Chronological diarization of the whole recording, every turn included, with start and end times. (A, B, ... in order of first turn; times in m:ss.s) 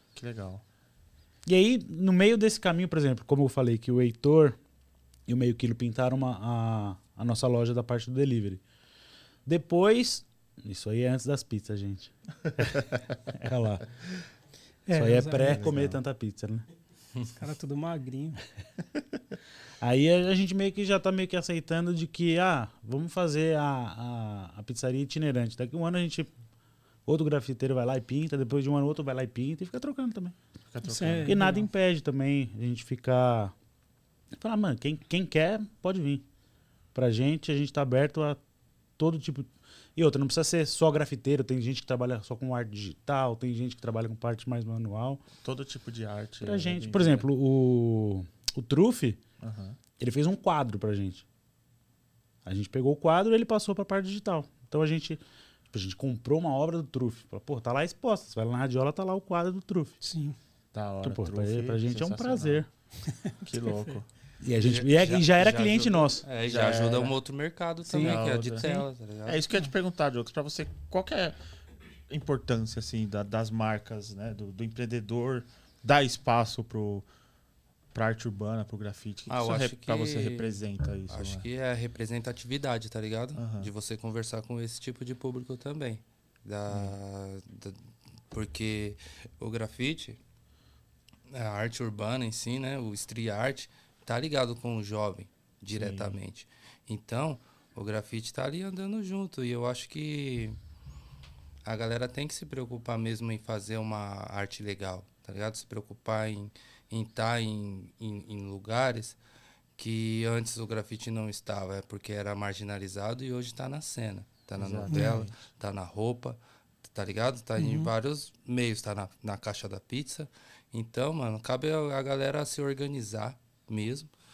0:00.1-0:00.6 A
0:01.4-0:04.6 B
0:05.3-0:08.6 B
0:09.4-0:13.8 B
0:14.9-0:15.7 C
0:14.9-0:16.6 B
0:15.5-0:16.0 A
0:17.3-0:18.4 C
0:19.8-0:26.3 B
0:27.0-0:30.4 B
0:30.6-0:31.4 A
0:30.8-0:31.7 C
0:31.2-0:33.5 B
0:34.4-0:36.2 B
0:36.9-0:38.4 B
0:39.0-0:45.2 B
0:45.4-0:47.3 A
0:46.4-0:49.2 B
0:49.4-0:49.8 A
0:50.0-0:51.2 B
0:52.4-1:00.0 B
1:00.0-1:00.4 C
1:00.7-1:02.6 A
1:01.0-1:02.7 B
1:03.2-1:03.9 C
1:03.4-1:04.0 A
1:04.4-1:06.2 B
1:04.6-1:09.4 D
1:06.4-1:07.2 A
1:07.8-1:08.2 B
1:08.0-1:08.7 A
1:09.2-1:11.4 A
1:12.1-1:17.0 A
1:17.9-1:21.4 A
1:19.3-1:27.8 D
1:23.4-1:23.7 A
1:26.7-1:26.9 A
1:28.3-1:30.2 D
1:31.3-1:40.6 D
1:35.7-1:36.2 A
1:41.6-1:49.2 D
1:49.8-2:04.1 D
1:54.6-1:55.3 A
1:54.9-1:55.2 C
1:57.6-1:57.9 C